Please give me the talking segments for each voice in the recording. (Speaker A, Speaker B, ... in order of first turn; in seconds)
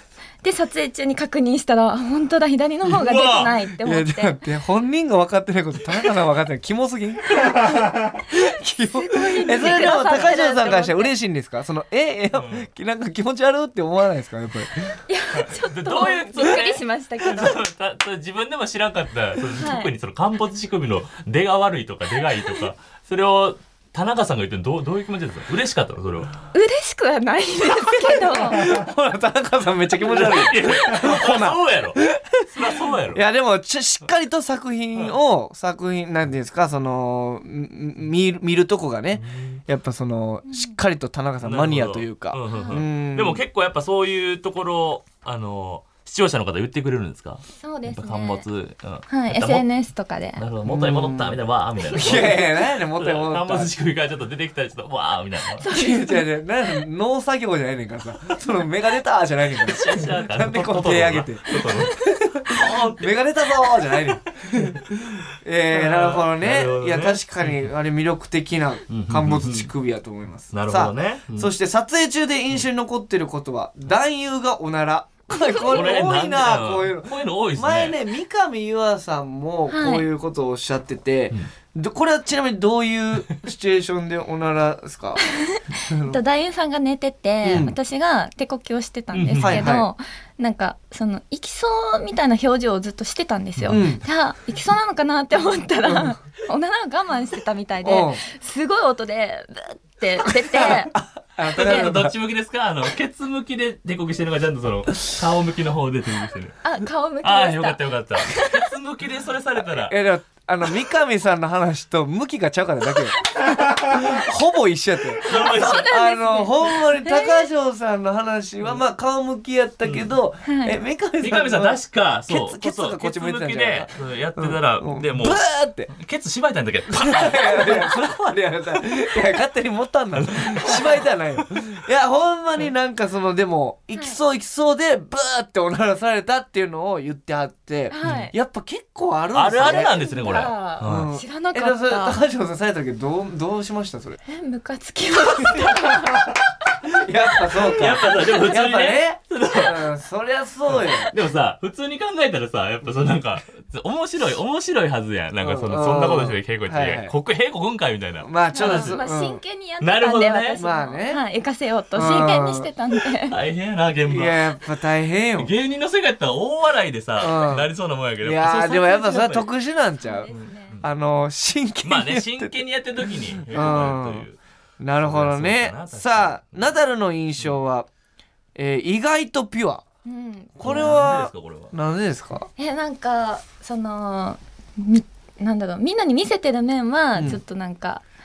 Speaker A: 0.4-4.4, 8.8-11.1, 15.1-17.6, 19.6-19.9, 26.5-28.6, 40.5-40.8, 42.5-42.8, 47.6-48.4, 49.1-50.4, 55.6-56.3, 75.4-75.7, 79.7-80.0, 85.2-100.9, 106.6-108.5, 115.4-117.5, 120.5-120.8, 137.9-138.3, 139.6-142.2, 144.2-146.4, 158.5-163.3, 170.0-170.8, 180.1-180.9, 182.6-188.0
Speaker B: 2.9-3.5, 12.3-12.7, 15.3-26.3, 30.0-33.2, 39.1-39.6, 41.4-49.7, 50.4-55.6, 59.6-63.2, 65.7-67.7, 68.9-69.7, 70.5-71.5, 75.7-78.0, 89.1-89.7, 101.5-106.6, 107.2-109.9, 115.2-115.9, 121.2-128.3, 130.1-131.6, 138.0-138.3, 139.3-141.1, 147.6-149.9, 150.7-159.0, 159.8-160.6, 163.2-164.5, 165.4-169.5, 170.3-170.8, 171.8-174.4, 175.0-176.7, 180.6-181.7
Speaker C: 3.8-15.0, 28.2-43.4, 50.6-51.4, 51.9-53.7, 55.7-85.2, 85.9-86.2, 87.4-87.7, 89.4-89.9, 93.7-94.0, 95.8-96.1, 97.8-98.2, 100.6-102.1, 109.8-125.9, 126.9-144.2, 145.2-146.3, 146.8-151.1, 155.4-157.1, 158.2-159.4, 160.6-161.2, 161.9-162.7, 164.1-165.5, 167.2-167.7, 168.2-174.2, 174.8-177.9, 178.5-179.8, 180.6-182.5, 187.1-187.4